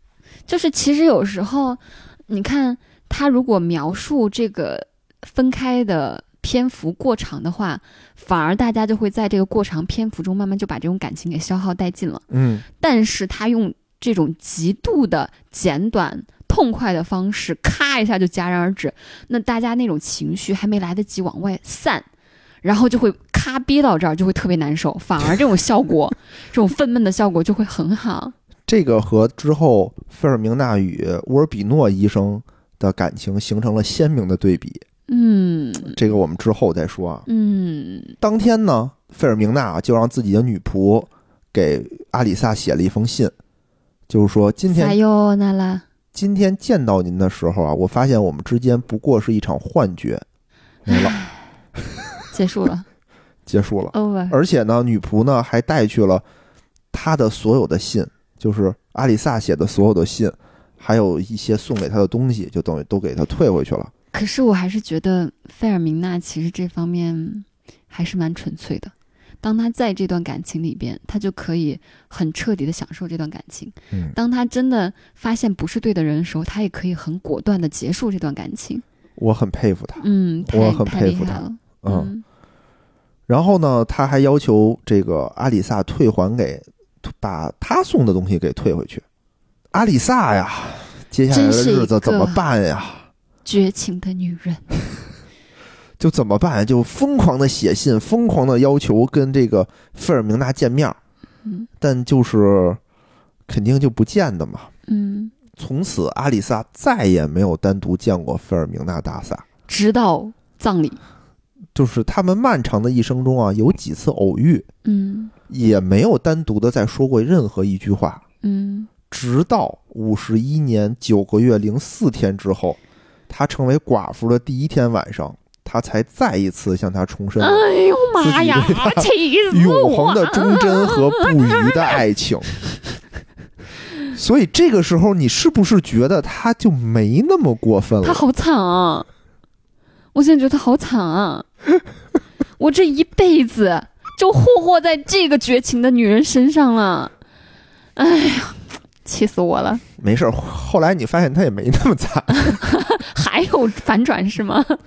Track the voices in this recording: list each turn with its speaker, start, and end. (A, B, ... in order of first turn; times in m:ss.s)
0:00.5-0:22.0 A
0:12.3-0:12.6 B
0:22.6-0:28.3 A
0:28.7-0:34.8 B
0:35.1-0:36.0 A
0:35.8-0:37.2 B
0:37.2-0:38.2 A
0:38.2-0:43.3 B
0:44.1-0:45.0 B
0:44.7-0:45.8 A
0:46.1-0:50.2 B
0:50.9-0:51.2 B
0:50.9-0:51.4 A
0:52.3-0:52.8 A
0:53.5-0:56.2 B
0:53.9-0:54.4 A
0:56.9-1:03.9 B
1:04.1-1:18.8 A
1:19.2-1:22.1 B
1:20.0-1:22.2 A
1:23.3-1:29.0 B
1:29.7-1:33.1 B
1:31.3-1:32.4 A
1:33.4-1:34.7 A
1:36.0-1:41.0 B
1:41.4-1:41.7 A
1:41.8-1:42.8 B
1:43.5-1:44.7 B
1:44.9-1:45.3 A
1:45.6-1:49.4 B
1:49.7-1:51.0 A
1:51.7-1:54.7 B
1:54.8-1:55.3 A
1:55.5-1:58.2 B
1:58.4-1:58.9 A
1:59.1-2:07.6 B
2:07.4-2:12.0 A
2:08.2-2:12.5 B
2:14.1-2:18.2 B
2:18.0-2:19.1 A
2:20.1-2:21.4 A
2:22.6-2:27.1 A
2:28.0-2:29.8 A
2:30.0-2:32.6 B
2:32.5-2:34.8 A